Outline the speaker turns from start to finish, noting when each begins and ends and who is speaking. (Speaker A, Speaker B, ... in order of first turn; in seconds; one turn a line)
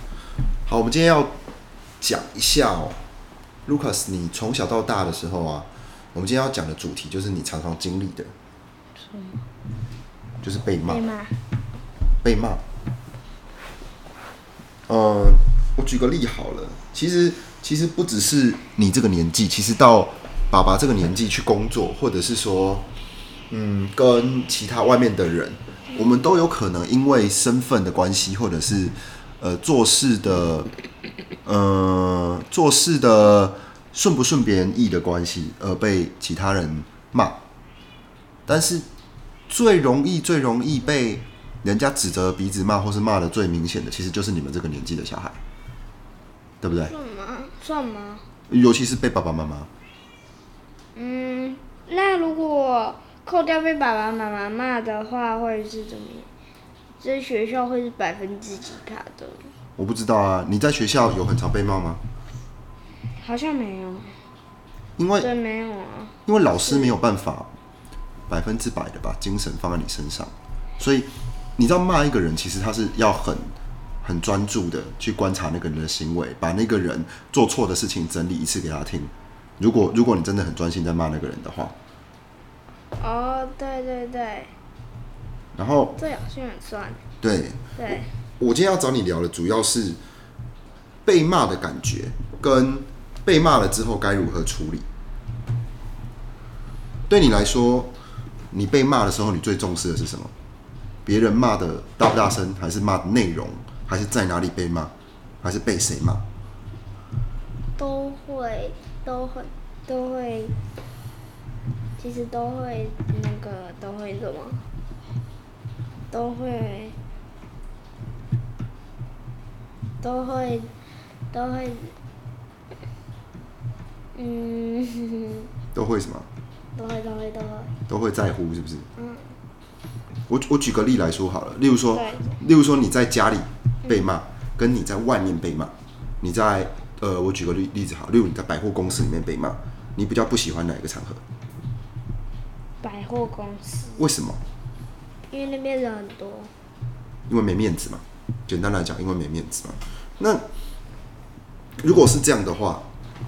Speaker A: 0.7-1.3
Speaker A: 2.0-3.0
Speaker A: 3.7-8.3
Speaker B: 9.0-9.5
Speaker A: 10.4-11.0
Speaker B: 10.9-11.4
Speaker A: 12.2-12.6
Speaker A: 14.9-22.9
Speaker A: 23.5-30.7
Speaker A: 31.4-37.4
Speaker A: 38.5-38.9
Speaker A: 39.5-45.4
Speaker A: 46.6-46.9
Speaker B: 46.7-48.2
Speaker A: 48.5-49.7
Speaker B: 50.9-56.3
Speaker B: 57.0-59.5
Speaker A: 59.8-62.0
Speaker B: 63.1-64.2
Speaker A: 65.0-65.3
Speaker B: 65.2-66.9
Speaker A: 66.2-67.5
Speaker A: 68.3-81.7
Speaker B: 83.0-84.5
Speaker A: 85.5-85.9
Speaker B: 86.0-87.0
Speaker A: 87.2-87.6
Speaker B: 87.8-88.1
Speaker A: 88.4-90.0
Speaker A: 91.0-94.8
Speaker A: 97.1-97.9
Speaker A: 98.5-100.3
Speaker A: 101.0-106.2
Speaker B: 107.8-110.5
Speaker B: 112.0-114.7
Speaker B: 116.1-117.0
Speaker B: 120.0-120.7
Speaker B: 121.3-121.9
Speaker B: 124.1-125.5
Speaker A: 125.7-126.3
Speaker B: 126.8-127.7
Speaker A: 127.9-128.9
Speaker B: 129.0-129.3
Speaker A: 130.3-141.2
Speaker B: 131.9-132.4
Speaker B: 142.8-144.1
Speaker A: 144.0-144.4
Speaker B: 145.3-146.5
Speaker A: 147.3-150.4
Speaker A: 151.8-152.8